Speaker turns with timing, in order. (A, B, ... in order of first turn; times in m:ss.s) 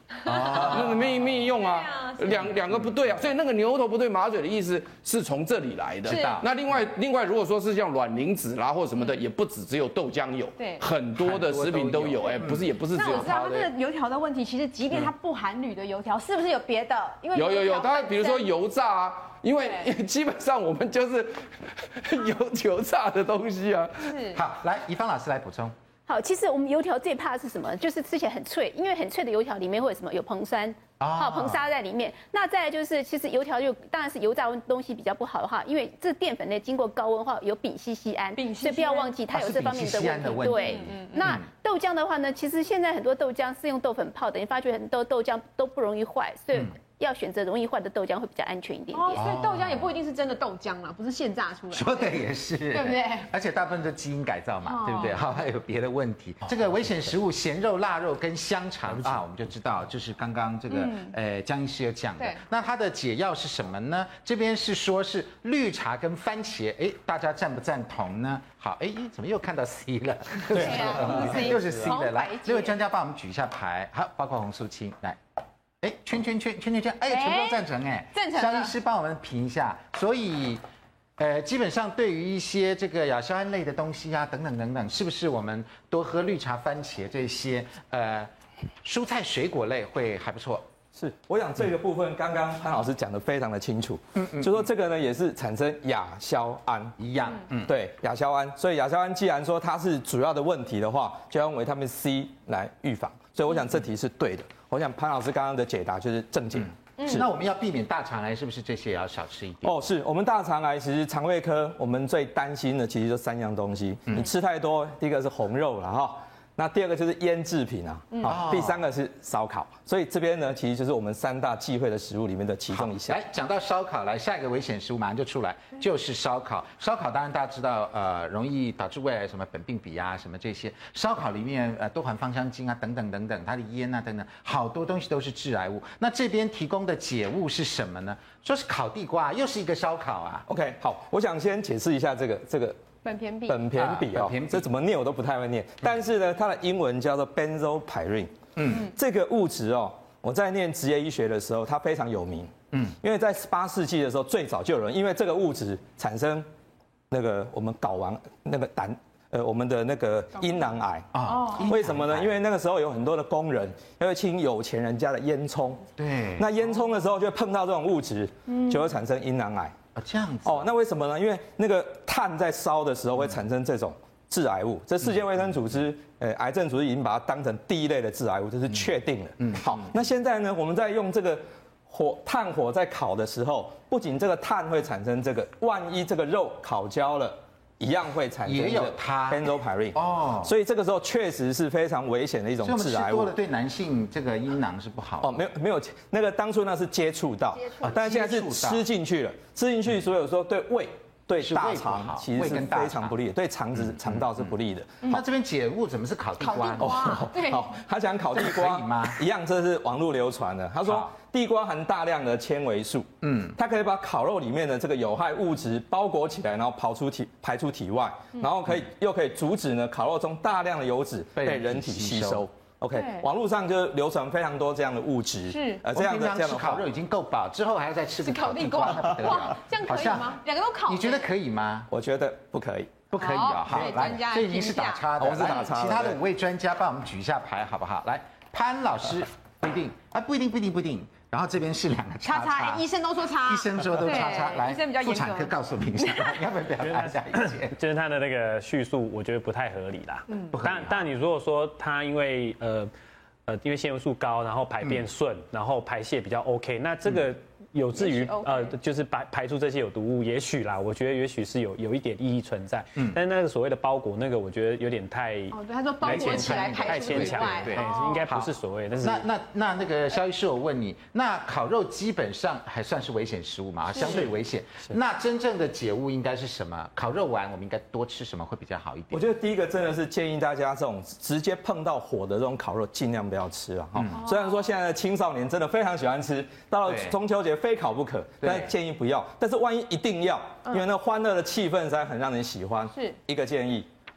0:00.2-0:02.5 A
0:00.2-0:01.2 B
0:00.4-0:13.7 C
0:02.4-0:03.0 B
0:06.0-0:06.5 B
0:06.1-0:06.4 A
0:10.6-0:10.8 A
0:11.2-0:12.7 B
0:12.9-0:18.5 A
0:17.3-0:24.1 C
0:19.6-0:19.9 A
0:24.0-0:24.4 A
0:24.3-0:25.7 B
0:26.1-0:49.2 D
0:31.0-0:31.6 B
0:38.4-0:39.2 A
0:39.3-0:41.4 B
0:40.4-0:41.3 A
0:48.9-0:53.3 A
0:49.1-0:49.9 B
0:51.7-1:15.2 B
0:54.6-0:55.3 A
1:00.7-1:01.1 A
1:10.5-1:12.7 A
1:15.8-1:20.6 B
1:17.1-1:18.7 A
1:21.2-1:28.3 B
1:28.8-1:30.6 B
1:30.9-1:37.0 E
1:34.2-1:34.7 B
1:37.0-1:37.7 B
1:37.6-1:47.3 E
1:47.0-1:47.2 A
1:47.1-1:49.9 B
1:49.6-2:03.2 E
1:58.1-1:58.4 A
1:58.2-1:58.8 B
2:02.7-2:20.4 B
2:20.5-2:22.8 E
2:23.0-2:23.6 A
2:23.5-2:32.5 E
2:23.7-2:24.7 B
2:28.6-2:28.9 B
2:33.0-2:36.5 E
2:37.1-2:45.9 E
2:41.1-2:42.4 B
2:41.3-2:41.7 A
2:46.0-2:46.5 B
2:46.4-2:49.7 E
2:49.9-2:50.7 B
2:50.4-3:13.3 E
2:58.7-3:00.0 B
3:08.4-3:10.5 B
3:12.6-3:15.4 B
3:15.2-3:25.2 E
3:17.8-3:18.8 B
3:21.4-3:23.1 B
3:23.8-3:24.5 B
3:25.0-3:27.1 B
3:26.4-3:27.8 A
3:26.8-3:46.8 E
3:28.3-3:29.2 B
3:30.8-3:31.1 B
3:33.2-3:33.6 B
3:41.4-3:42.4 B
3:42.9-3:43.2 A
3:45.5-3:45.8 A
3:45.8-3:51.9 B
3:48.2-3:51.3 A
3:51.9-3:53.1 E
3:53.1-4:02.8 B
3:53.2-3:55.5 A
3:55.2-3:56.2 E
4:02.2-4:06.4 A
4:03.4-4:07.8 B
4:06.8-4:12.9 F
4:10.5-4:11.1 B
4:13.5-4:29.3 F
4:18.0-4:18.7 A
4:25.5-4:28.2 A
4:26.0-4:39.3 B
4:33.9-4:34.2 A
4:39.1-4:53.9 E
4:43.9-4:44.2 B
4:44.1-4:44.7 A
4:46.9-4:47.1 B
4:48.4-4:48.7 B